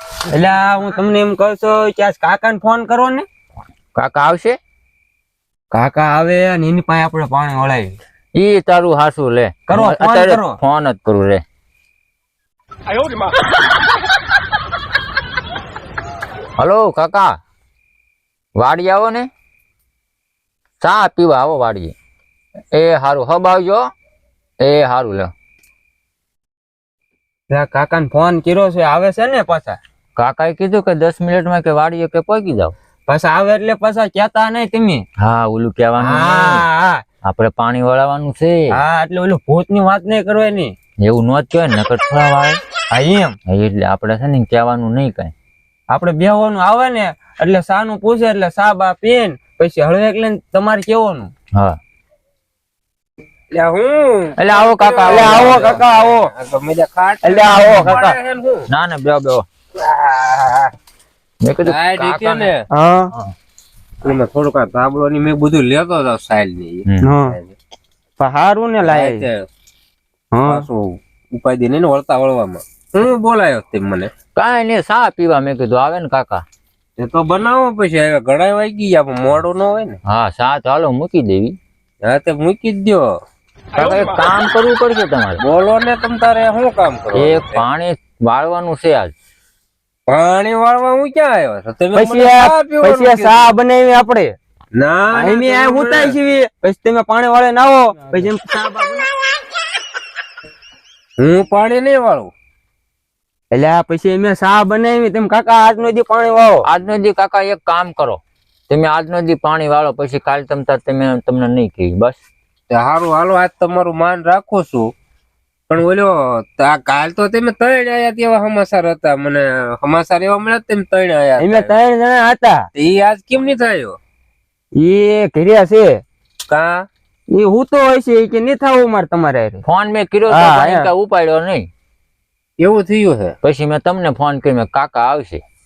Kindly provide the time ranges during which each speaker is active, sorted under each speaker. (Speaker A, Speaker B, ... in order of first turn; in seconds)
Speaker A: 0.3-3.3, 5.7-8.0, 9.7-10.6, 27.5-29.8, 33.1-35.0, 36.0-37.0, 38.7-40.7, 42.9-43.4, 45.9-51.3, 55.1-56.3, 57.2-58.2, 62.7-63.1, 67.0-67.4, 68.2-69.3, 70.3-70.7, 91.9-94.4, 95.1-99.1, 103.5-106.7, 121.4-122.7, 124.8-126.0, 127.3-129.7, 130.3-130.9
Speaker B: 4.0-4.6, 8.3-11.4, 16.6-17.4, 18.6-19.3, 20.8-21.9, 22.7-23.9, 24.6-25.3, 30.2-32.8, 35.2-36.6, 37.2-38.7, 41.0-42.6, 43.5-45.3, 54.4-55.5, 58.7-59.5, 61.4-62.5, 66.9-67.1, 74.3-76.5, 80.0-81.6, 83.8-85.4, 87.1-89.1, 106.6-112.2, 129.7-131.7, 133.4-135.4
Speaker C: 53.5-58.7, 59.8-60.7, 61.6-62.7, 64.0-67.5, 68.8-69.5, 70.5-74.1, 77.0-80.0, 82.0-83.1, 85.4-87.6, 90.1-93.5, 94.8-96.2, 101.2-102.3, 112.7-114.9, 115.7-121.7, 122.8-124.0, 126.5-126.9, 132.6-133.3